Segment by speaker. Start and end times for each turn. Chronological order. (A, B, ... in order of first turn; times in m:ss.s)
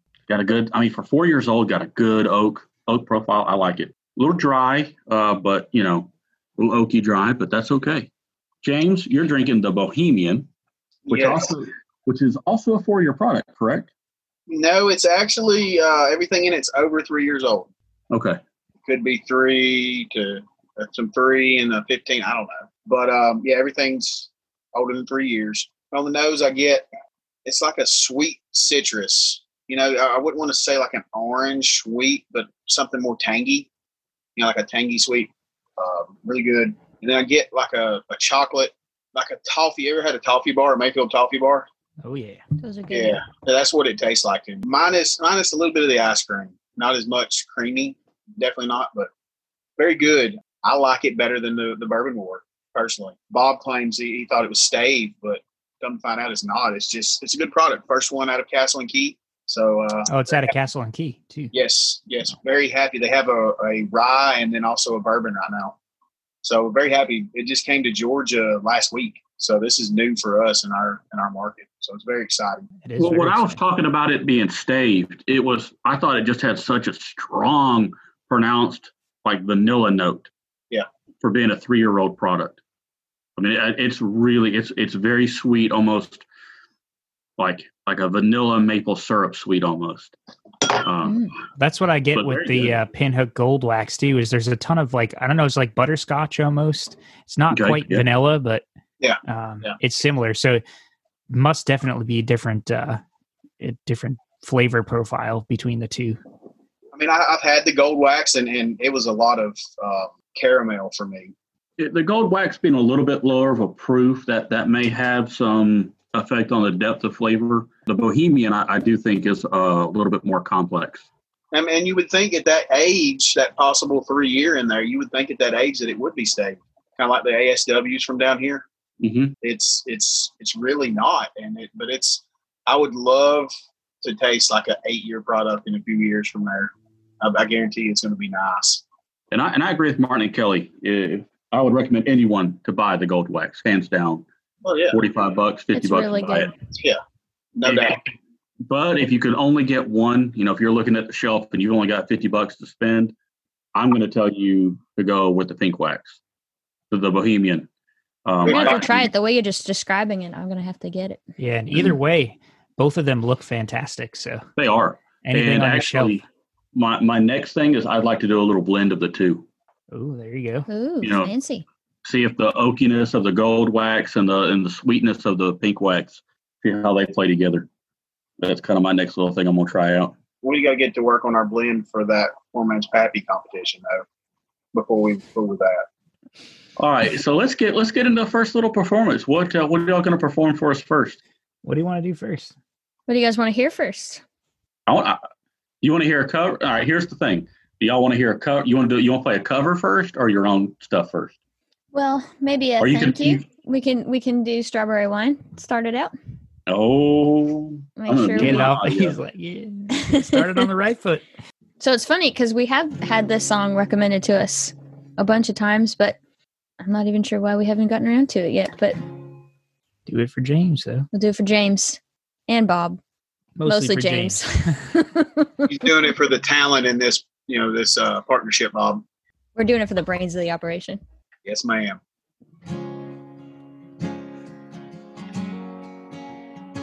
0:00.3-0:08.1 A
0:08.6-0:10.5 A
0:11.1-0:11.5 B
0:11.1-0:13.9 A
0:14.5-0:17.7 B
0:18.1-0:18.4 A
0:18.8-0:26.9 B
0:27.4-0:33.7 B
0:34.4-0:41.7 B
0:42.0-0:42.4 C
0:42.6-0:43.2 D
0:42.9-0:49.1 B
0:49.8-1:00.5 B
1:00.1-1:01.5 C
1:01.5-1:05.8 B
1:06.4-1:12.7 B
1:12.8-1:13.6 C
1:13.0-1:20.3 A
1:21.2-1:22.6 A
1:23.4-1:26.2 A
1:27.4-1:30.2 A
1:30.7-1:31.3 A
1:31.0-1:31.3 D
1:31.6-1:38.6 C
1:32.1-1:32.8 A
1:37.5-1:38.1 A
1:39.0-1:39.8 B
1:39.2-1:40.6 C
1:41.3-1:43.0 C
1:43.6-1:46.2 C
1:46.9-1:51.3 B
1:51.8-2:01.0 A
2:01.5-2:08.6 B
2:09.0-2:09.3 A
2:09.4-2:13.5 B
2:14.0-2:18.8 B
2:19.3-2:24.2 A
2:24.6-2:25.0 B
2:24.9-2:26.5 A
2:25.8-2:26.5 D
2:26.6-2:27.0 B
2:27.5-2:28.0 B
2:27.6-2:28.1 A
2:28.6-2:33.1 A
2:33.8-2:36.2 A
2:36.9-2:37.7 A
2:38.2-2:39.1 A
2:38.4-2:38.8 B
2:38.4-2:41.2 D
2:41.4-2:44.4 C
2:44.6-2:46.2 A
2:45.2-2:46.2 C
2:46.7-2:49.5 A
2:49.9-2:50.6 C
2:50.7-2:51.6 D
2:51.0-2:51.3 A
2:52.0-2:57.7 A
2:58.4-3:00.1 A
3:00.4-3:04.0 B
3:04.7-3:05.8 B
3:06.8-3:11.2 A
3:11.6-3:12.5 C
3:13.1-3:14.2 D
3:14.9-3:15.2 A
3:15.8-3:21.3 A
3:21.9-3:26.1 D
3:22.8-3:23.4 A
3:26.7-3:29.2 A
3:28.0-3:28.8 D
3:28.4-3:31.2 C
3:30.0-3:30.5 D
3:31.8-3:36.2 D
3:36.8-3:39.0 D
3:40.1-3:41.1 C
3:41.1-3:43.0 D
3:43.6-3:44.4 C
3:43.6-3:45.7 D
3:45.6-3:49.0 B
3:49.6-3:51.0 D
3:51.4-3:52.0 B